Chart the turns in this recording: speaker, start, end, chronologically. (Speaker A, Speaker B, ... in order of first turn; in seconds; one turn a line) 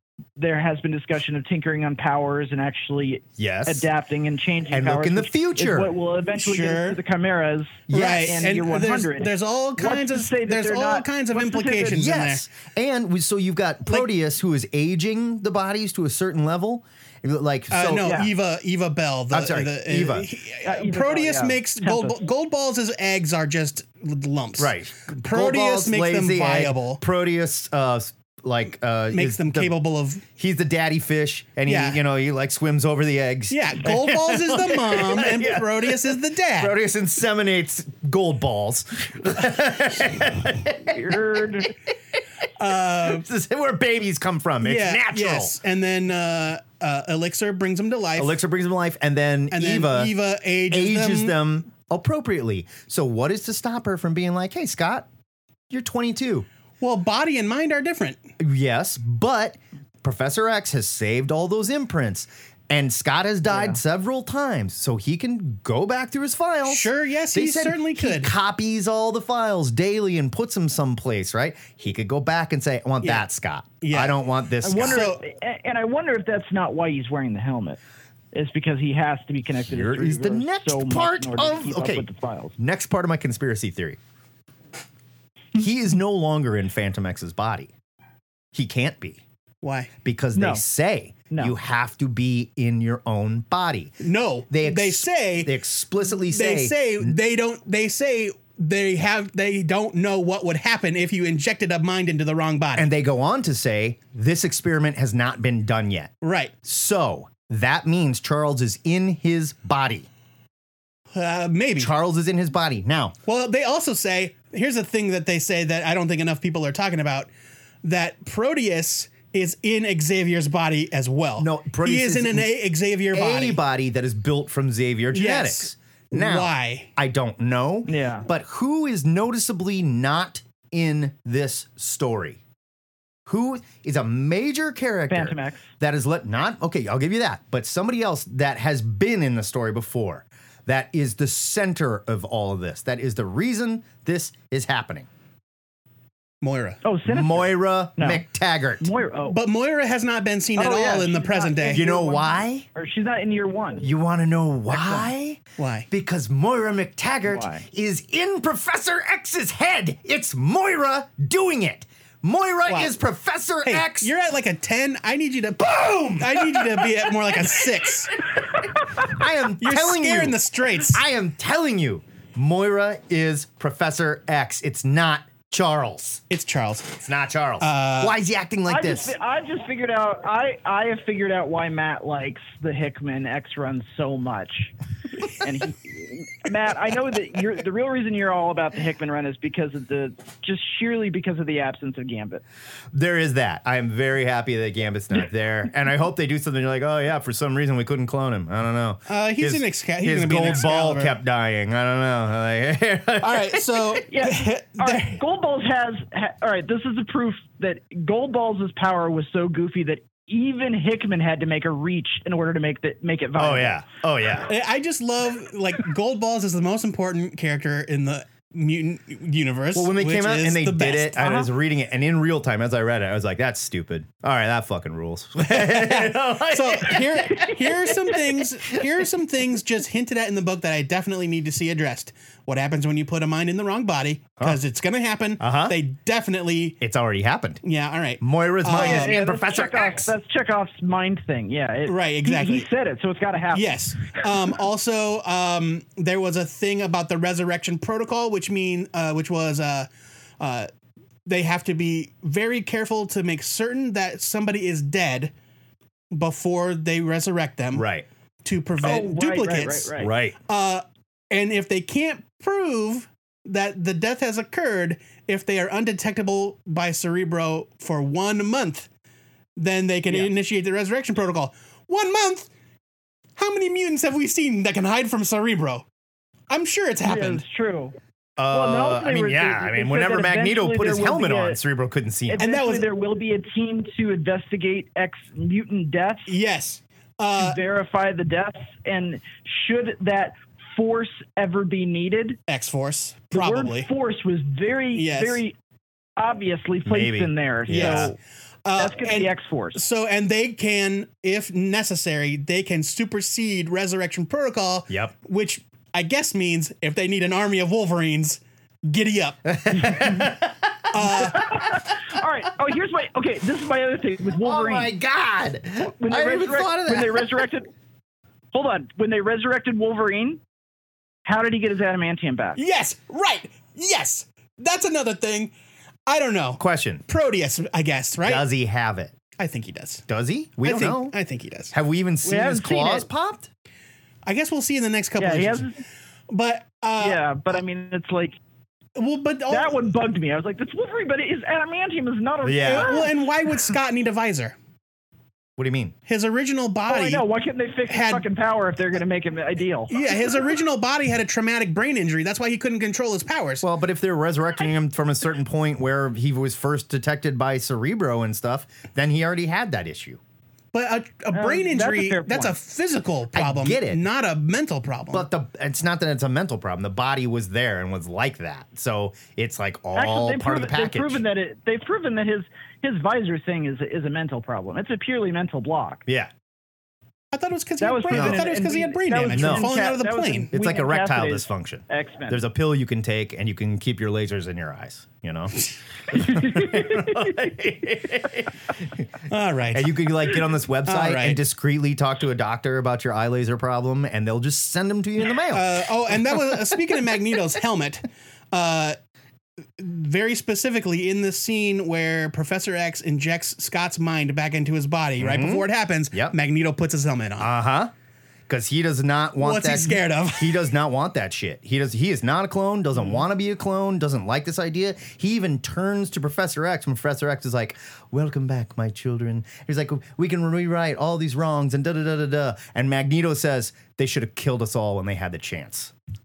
Speaker A: 0.4-12.1
Speaker B: 3.4-3.9
Speaker B: 4.7-5.9
Speaker C: 6.4-7.0
Speaker B: 7.9-8.3
Speaker C: 7.9-12.4
Speaker B: 11.9-18.2
Speaker C: 17.7-27.0
Speaker A: 18.0-18.3
Speaker B: 19.3-20.3
Speaker A: 20.6-22.2
Speaker B: 24.6-29.8
Speaker C: 29.1-30.2
Speaker B: 30.4-41.0
Speaker C: 31.7-32.0
Speaker C: 33.5-36.8
Speaker A: 40.9-41.7
Speaker C: 42.6-43.2
Speaker B: 43.0-45.5
Speaker C: 44.6-48.4
Speaker B: 48.2-50.1
Speaker C: 49.5-51.4
Speaker B: 50.7-55.1
Speaker B: 55.7-56.5
Speaker C: 56.8-58.2
Speaker B: 58.4-75.0
Speaker A: 63.5-63.8
Speaker C: 66.7-68.3
Speaker C: 73.8-74.2
Speaker A: 74.6-77.8
Speaker C: 74.8-75.2
Speaker A: 78.3-82.5
Speaker B: 79.7-82.0
Speaker B: 82.6-84.0
Speaker B: 85.5-87.7
Speaker B: 88.5-89.2
Speaker C: 89.6-89.9
Speaker B: 90.0-94.0
Speaker A: 90.3-90.6
Speaker C: 94.0-95.6
Speaker B: 94.5-97.2
Speaker C: 96.2-102.9
Speaker B: 102.8-106.1
Speaker C: 106.2-106.5
Speaker B: 106.6-110.1
Speaker C: 111.1-111.9
Speaker B: 111.8-113.2
Speaker C: 113.2-117.3
Speaker C: 117.8-123.6
Speaker B: 121.4-122.5
Speaker B: 123.1-132.4
Speaker C: 125.1-126.9
Speaker A: 127.9-128.3
Speaker B: 133.3-145.1
Speaker A: 135.1-135.7
Speaker C: 146.4-146.8
Speaker A: 146.8-148.2
Speaker B: 147.1-148.9
Speaker A: 148.8-149.4
Speaker C: 149.3-151.9
Speaker A: 150.6-153.8
Speaker B: 151.7-152.7
Speaker B: 153.8-164.1
Speaker A: 154.7-155.0
Speaker C: 155.6-155.9
Speaker A: 157.3-157.6
Speaker C: 162.7-162.9
Speaker C: 163.7-168.2
Speaker B: 165.9-166.8
Speaker B: 169.0-176.2
Speaker C: 169.6-171.0
Speaker C: 176.3-177.0
Speaker B: 177.0-179.2
Speaker C: 177.6-178.2
Speaker A: 178.7-184.7
Speaker A: 185.3-192.4
Speaker B: 192.9-203.8
Speaker C: 199.1-201.2
Speaker C: 203.2-205.2
Speaker A: 204.1-213.8
Speaker B: 213.4-214.5
Speaker C: 214.5-221.4
Speaker B: 219.7-227.6
Speaker C: 225.5-236.8
Speaker B: 235.4-235.8
Speaker B: 236.8-237.6
Speaker C: 237.6-239.2
Speaker B: 238.2-240.1
Speaker A: 238.7-244.2
Speaker C: 241.9-242.7
Speaker C: 243.5-250.7
Speaker C: 251.3-255.3
Speaker C: 256.1-257.9
Speaker B: 257.7-258.1
Speaker C: 258.4-268.9
Speaker A: 258.8-260.1
Speaker B: 260.0-260.4
Speaker C: 269.6-272.5
Speaker C: 273.4-275.9
Speaker C: 276.5-277.4
Speaker A: 277.0-277.9
Speaker B: 278.4-282.4
Speaker A: 278.5-281.6
Speaker A: 282.3-286.4
Speaker C: 282.4-282.9
Speaker C: 286.3-287.6
Speaker A: 287.4-292.4
Speaker C: 292.5-293.9
Speaker A: 293.3-295.6
Speaker C: 294.9-295.4
Speaker A: 296.2-298.2
Speaker B: 296.9-298.1
Speaker C: 297.7-298.1
Speaker C: 298.6-310.1
Speaker A: 298.8-299.8
Speaker B: 304.9-305.1
Speaker B: 309.5-311.5
Speaker C: 310.9-311.5
Speaker A: 311.0-314.9
Speaker B: 314.4-317.4
Speaker A: 315.8-317.7
Speaker A: 318.5-320.4
Speaker A: 321.2-322.6
Speaker C: 322.6-325.5
Speaker C: 326.1-328.5
Speaker B: 326.6-327.1
Speaker B: 328.2-329.2
Speaker C: 329.4-330.0
Speaker B: 330.1-331.1
Speaker C: 330.6-331.7
Speaker B: 331.7-333.5
Speaker A: 332.2-333.1
Speaker C: 334.2-335.7
Speaker A: 335.2-335.7
Speaker C: 336.3-337.2
Speaker A: 337.0-338.4
Speaker C: 339.0-339.8
Speaker A: 339.5-343.1
Speaker B: 342.4-342.9
Speaker C: 342.6-344.6
Speaker B: 345.6-345.9
Speaker C: 346.1-347.2
Speaker A: 346.9-350.0
Speaker C: 347.9-348.2
Speaker C: 349.9-353.6
Speaker B: 353.6-360.2
Speaker C: 360.7-365.3
Speaker A: 361.3-362.6
Speaker B: 363.3-364.0
Speaker B: 365.1-371.2
Speaker A: 369.9-376.0
Speaker C: 377.3-380.5
Speaker A: 377.8-382.4
Speaker B: 378.1-378.4
Speaker B: 379.3-379.7
Speaker B: 380.5-388.5
Speaker C: 389.3-391.4
Speaker B: 389.7-395.8
Speaker C: 395.5-399.0
Speaker C: 399.8-407.5
Speaker B: 405.2-406.4
Speaker B: 407.4-407.9
Speaker B: 408.5-425.9
Speaker C: 409.4-410.7